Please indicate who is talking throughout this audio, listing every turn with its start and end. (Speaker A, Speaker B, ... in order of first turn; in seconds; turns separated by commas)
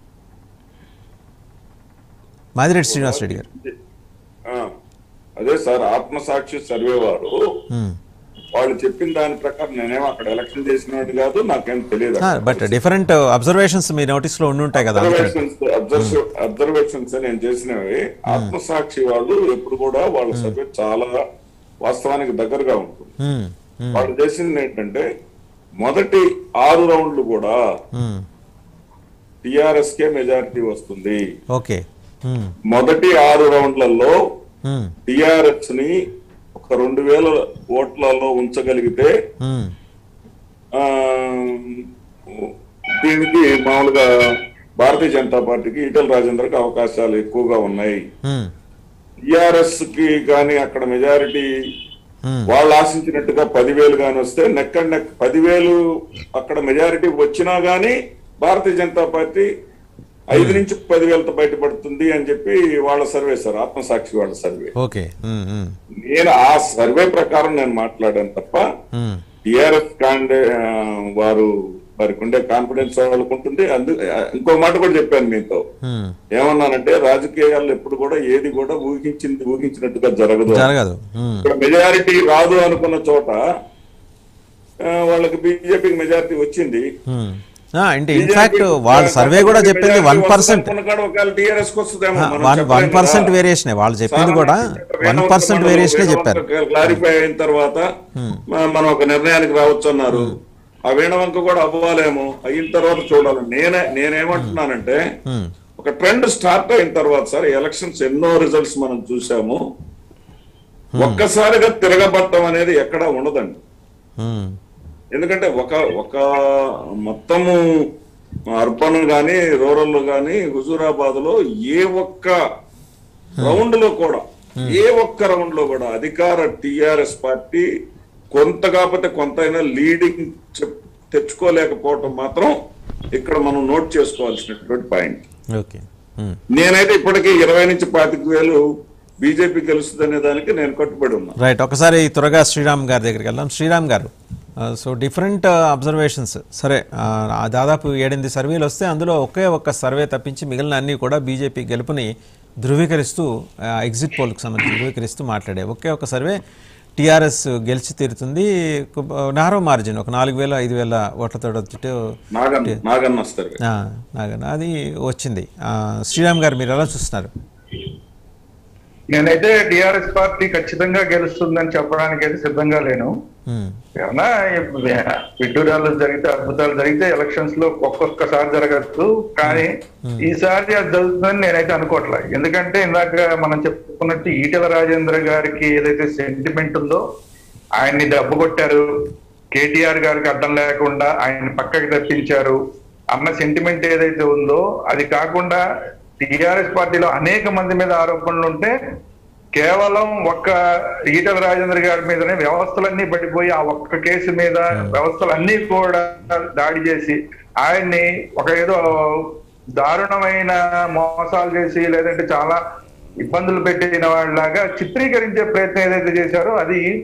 Speaker A: 2.6-3.4, Speaker B: 2.9-3.7, Speaker B: 5.4-7.3, Speaker A: 7.7-8.0, Speaker B: 8.5-12.8, Speaker A: 12.2-15.3, Speaker B: 14.8-21.1, Speaker B: 21.8-23.1, Speaker A: 23.2-24.1, Speaker B: 23.9-25.0, Speaker B: 25.8-27.6, Speaker A: 27.9-28.2, Speaker B: 29.4-31.2, Speaker A: 31.5-32.5, Speaker B: 32.7-34.2, Speaker A: 34.6-34.9, Speaker B: 35.1-35.9, Speaker B: 36.6-39.1, Speaker A: 39.4-39.7, Speaker B: 40.7-44.1, Speaker B: 44.8-48.0, Speaker A: 48.2-48.5, Speaker B: 49.3-51.5, Speaker A: 52.2-52.5, Speaker B: 52.5-55.8, Speaker B: 56.3-59.5, Speaker B: 60.3-64.7, Speaker A: 60.3-60.6, Speaker A: 64.8-65.7, Speaker B: 66.0-68.6, Speaker A: 68.9-69.2, Speaker B: 69.5-75.6, Speaker A: 75.8-76.2, Speaker B: 76.3-80.7, Speaker A: 80.5-81.5, Speaker B: 81.4-83.4, Speaker B: 84.8-86.8, Speaker A: 87.1-90.7, Speaker B: 88.1-93.3, Speaker A: 92.2-97.0, Speaker B: 94.1-97.8, Speaker A: 98.2-98.4, Speaker B: 98.5-100.3, Speaker B: 100.9-105.0, Speaker B: 105.8-109.6, Speaker A: 110.9-111.2, Speaker B: 111.0-113.6, Speaker A: 114.2-114.5, Speaker B: 115.1-116.2, Speaker B: 117.0-117.6, Speaker B: 118.6-122.3, Speaker B: 123.4-127.7, Speaker B: 128.3-132.5, Speaker B: 133.1-135.2, Speaker A: 135.5-136.4, Speaker B: 136.5-138.6, Speaker B: 139.2-141.3, Speaker A: 141.4-144.1, Speaker A: 144.6-152.1, Speaker A: 152.6-153.3, Speaker A: 153.8-156.4, Speaker A: 157.0-161.9, Speaker B: 162.3-163.6, Speaker A: 163.6-167.3, Speaker C: 169.1-173.1, Speaker A: 173.5-173.8, Speaker C: 174.0-187.0, Speaker A: 179.4-180.2, Speaker C: 187.8-188.8, Speaker C: 189.5-192.6, Speaker C: 193.1-195.6, Speaker C: 196.2-198.7, Speaker C: 199.6-200.5, Speaker C: 201.1-212.6, Speaker A: 204.7-205.0, Speaker C: 213.2-216.8